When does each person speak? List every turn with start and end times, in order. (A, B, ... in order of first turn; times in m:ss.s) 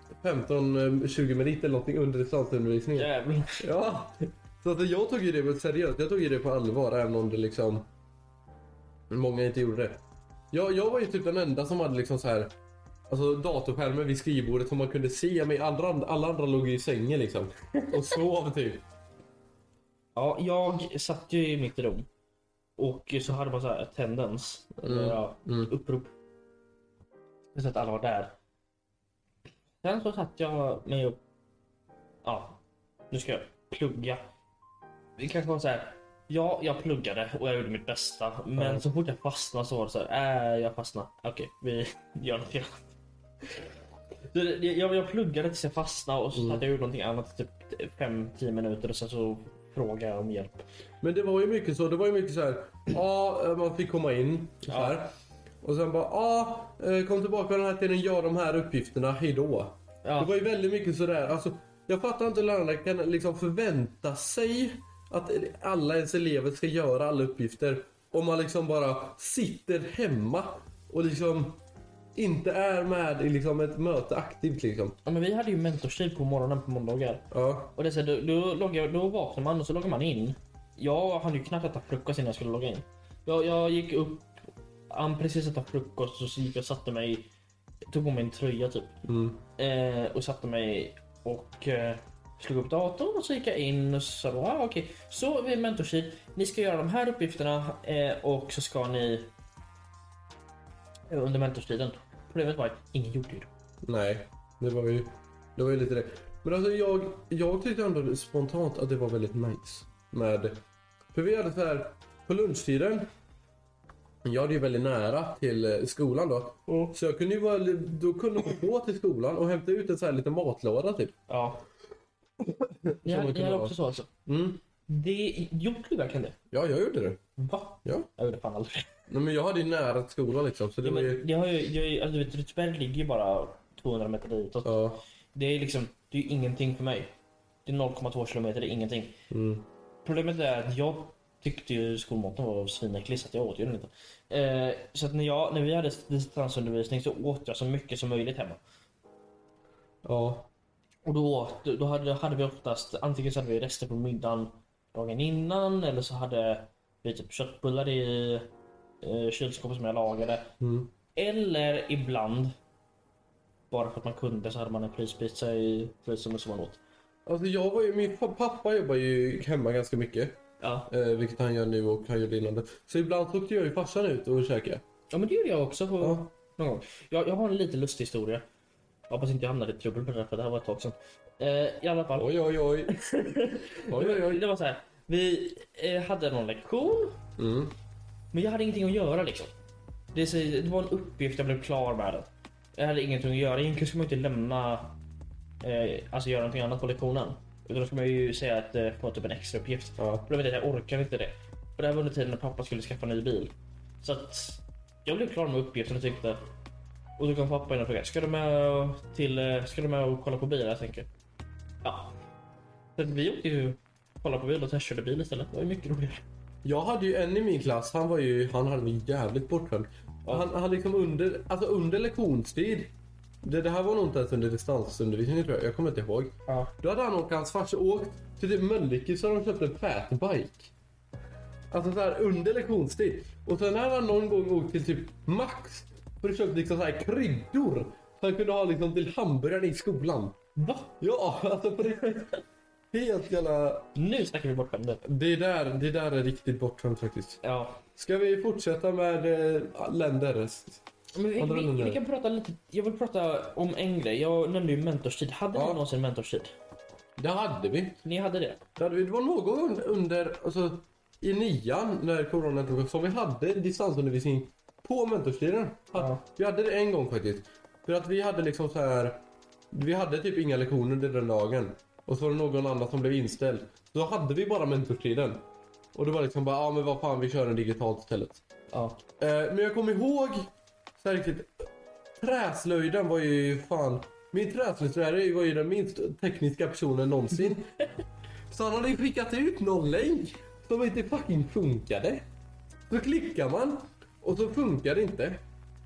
0:00.2-0:07.9 A
0:03.0-0:03.6 B
0:09.1-0:10.0 A
0:10.5-0:12.5 A
0:13.1-0:18.8 A
0:20.1-0:22.1 B
0:22.8-0:26.1 B
0:24.8-0:25.7 A
0:27.5-0:28.3 B
0:29.8-0:31.2 B
0:32.2-0:32.6 B
0:33.1-0:34.2 B
0:35.2-0:42.9 B
0:38.6-0:38.8 A
0:44.3-0:50.6 B
0:46.3-0:46.6 A
0:51.0-0:55.1 A
0:54.7-0:55.0 B
0:55.6-1:11.6 A
1:00.0-1:00.3 B
1:12.1-1:15.0 A
1:15.0-1:27.3 B
1:17.3-1:17.7 A
1:27.9-1:28.9 B
1:29.0-1:29.4 A
1:29.6-1:39.3 B
1:41.1-1:43.5 B
1:43.8-1:50.6 A
1:51.1-1:53.1 A
1:54.2-2:01.1 A
1:56.7-1:56.9 B
2:01.3-2:01.6 B
2:02.4-2:04.6 A
2:03.0-2:04.1 B
2:04.9-2:06.4 B
2:06.5-2:07.2 A
2:07.4-2:08.9 B
2:09.1-2:11.2 A
2:10.8-2:14.8 B
2:14.6-2:15.0 A
2:15.3-2:17.1 B
2:17.6-2:19.2 B
2:19.3-2:19.6 A
2:20.0-2:28.6 B
2:30.0-2:30.5 A
2:31.0-2:38.5 B
2:39.0-2:40.5 B
2:40.6-2:40.9 A
2:41.1-2:42.5 B
2:43.7-2:46.8 B
2:47.2-2:54.8 A
2:50.6-2:50.9 B
2:55.1-2:58.4 B
2:56.0-2:56.3 A
2:59.1-3:07.2 B
3:02.2-3:02.9 A
3:03.9-3:04.4 A
3:07.4-3:07.7 A
3:08.3-3:09.5 B
3:10.1-3:14.9 B
3:15.6-3:26.4 B
3:20.0-3:20.3 A
3:27.2-3:31.1 B
3:31.8-3:32.1 B
3:33.0-3:36.2 B
3:36.6-3:42.9 A
3:43.4-3:50.7 A
3:46.5-3:46.7 B
3:51.7-4:00.3 A
4:00.6-4:01.0 B
4:01.0-4:02.3 A
4:02.9-4:03.9 A
4:04.0-4:05.0 B
4:05.0-4:07.4 A
4:07.4-4:07.8 B
4:07.9-4:10.8 A
4:11.1-4:16.5 B
4:11.4-4:12.0 A
4:15.5-4:15.8 A
4:17.2-4:18.0 A
4:18.0-4:18.6 B
4:18.8-4:35.4 A
4:26.0-4:26.2 B
4:35.9-4:38.4 A
4:38.7-4:39.0 B
4:39.2-4:41.7 A
4:42.2-4:47.8 A
4:48.5-4:52.2 A
4:52.9-4:55.4 A